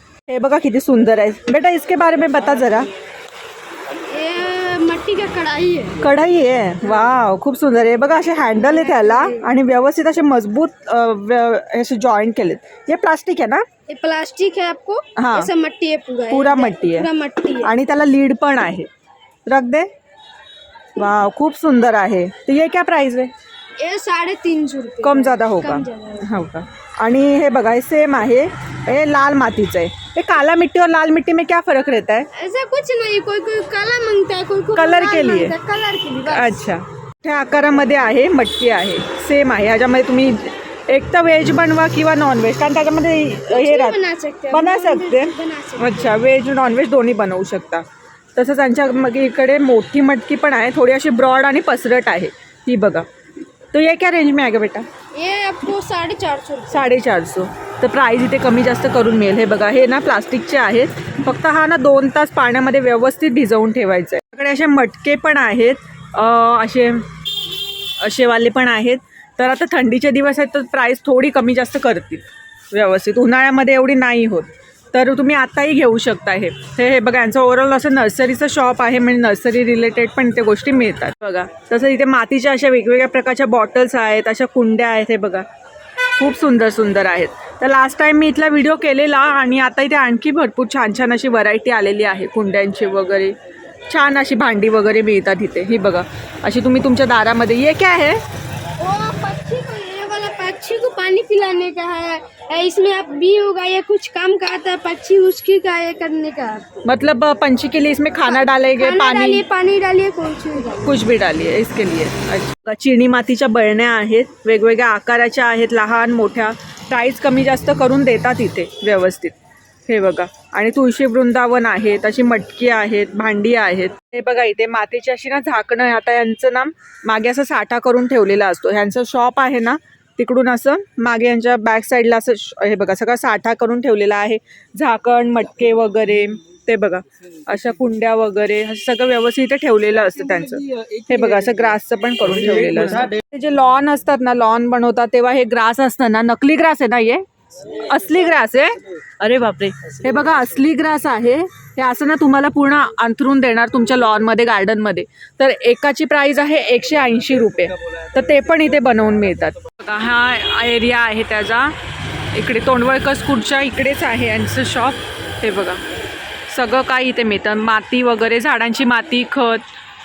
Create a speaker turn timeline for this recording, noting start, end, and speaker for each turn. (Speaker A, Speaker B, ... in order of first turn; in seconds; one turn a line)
Speaker A: 0.3-2.9
Speaker B: 4.0-6.1
Speaker A: 6.0-13.7
Speaker B: 8.6-9.5
Speaker B: 13.9-17.7
Speaker A: 15.2-15.5
Speaker A: 16.3-17.1
Speaker A: 17.6-18.9
Speaker A: 19.5-19.9
Speaker A: 21.0-23.3
Speaker B: 23.8-26.3
Speaker A: 25.0-32.3
Speaker B: 32.3-36.7
Speaker A: 34.8-35.5
Speaker A: 36.3-44.0
Speaker B: 43.5-46.2
Speaker A: 44.5-47.9
Speaker A: 48.4-53.1
Speaker A: 53.7-54.9
Speaker B: 55.1-56.9
Speaker A: 56.7-67.1
Speaker A: 68.0-85.5
Speaker A: 86.2-93.3
Speaker A: 93.9-98.2
Speaker B: 98.8-106.9
Speaker A: 106.8-109.4
Speaker B: 108.3-111.0
Speaker A: 110.8-119.4
Speaker A: 119.9-161.8
Speaker A: 162.3-165.8
Speaker A: 166.5-169.6